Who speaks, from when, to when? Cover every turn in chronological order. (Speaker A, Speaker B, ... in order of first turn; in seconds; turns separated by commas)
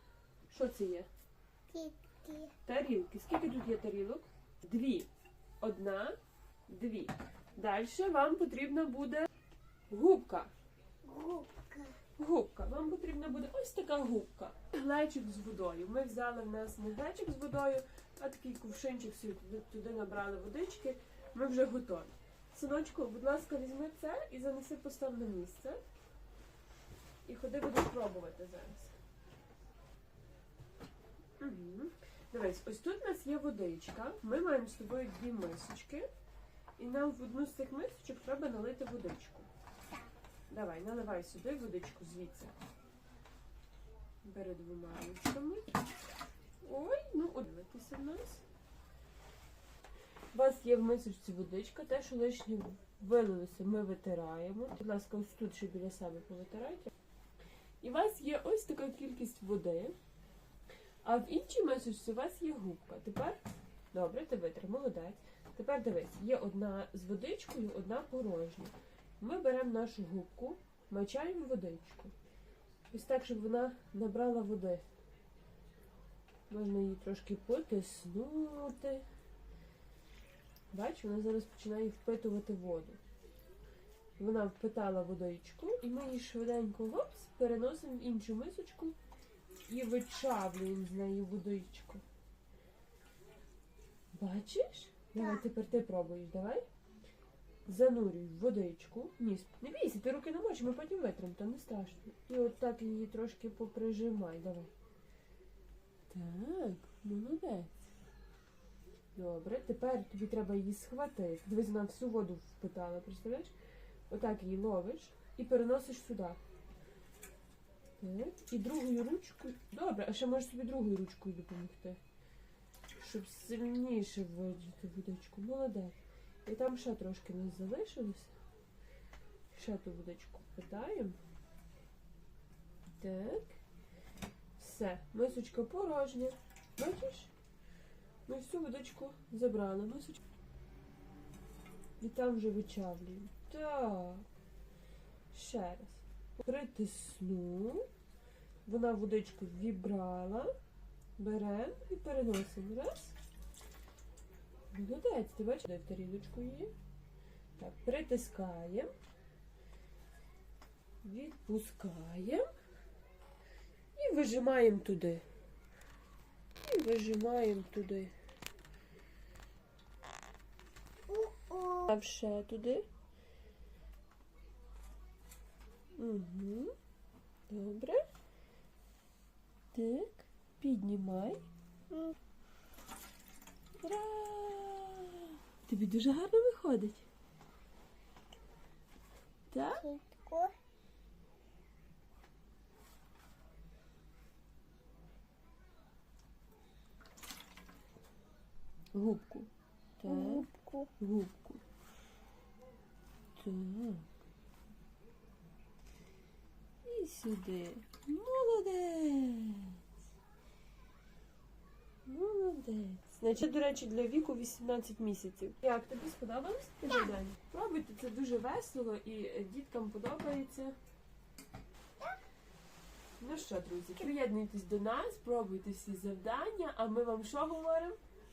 Speaker A: 0.5-1.1, Speaker B: 1.7-2.5, Speaker A: 2.6-5.1, Speaker A: 5.6-6.2, Speaker A: 6.7-9.3, Speaker A: 9.9-10.5, Speaker B: 11.0-12.0, Speaker A: 12.2-25.8, Speaker A: 27.2-28.9, Speaker A: 31.4-36.1, Speaker A: 36.8-39.5, Speaker A: 40.5-42.5, Speaker A: 44.2-45.7, Speaker A: 46.6-48.4, Speaker A: 50.3-56.9, Speaker A: 57.8-60.0, Speaker A: 61.0-63.4, Speaker A: 63.9-72.1, Speaker A: 72.9-74.8, Speaker A: 76.5-79.0, Speaker A: 80.7-83.0, Speaker A: 84.2-89.0, Speaker A: 89.7-92.0, Speaker A: 94.1-96.7, Speaker A: 97.7-104.7, Speaker A: 106.1-107.9, Speaker A: 109.1-113.5, Speaker A: 114.1-116.4, Speaker A: 118.0-122.0, Speaker A: 123.0-128.3, Speaker A: 129.5-131.2, Speaker A: 133.0-133.6, Speaker A: 134.6-137.3, Speaker A: 138.3-140.2, Speaker A: 142.0-144.3, Speaker A: 145.3-147.9, Speaker A: 148.7-150.5, Speaker A: 151.2-153.2, Speaker A: 154.7-156.7, Speaker A: 157.6-158.9, Speaker A: 161.0-162.5, Speaker A: 164.0-165.2, Speaker A: 166.6-168.1, Speaker B: 171.1-171.9, Speaker A: 171.8-172.9, Speaker A: 176.0-176.7, Speaker A: 177.5-178.0, Speaker A: 179.7-181.4, Speaker A: 183.8-187.1, Speaker A: 189.5-189.8, Speaker B: 189.8-190.5, Speaker A: 198.9-200.5, Speaker B: 200.1-200.9, Speaker A: 201.0-201.6, Speaker A: 203.4-204.1, Speaker A: 206.8-209.8, Speaker A: 212.1-220.8, Speaker A: 223.2-228.0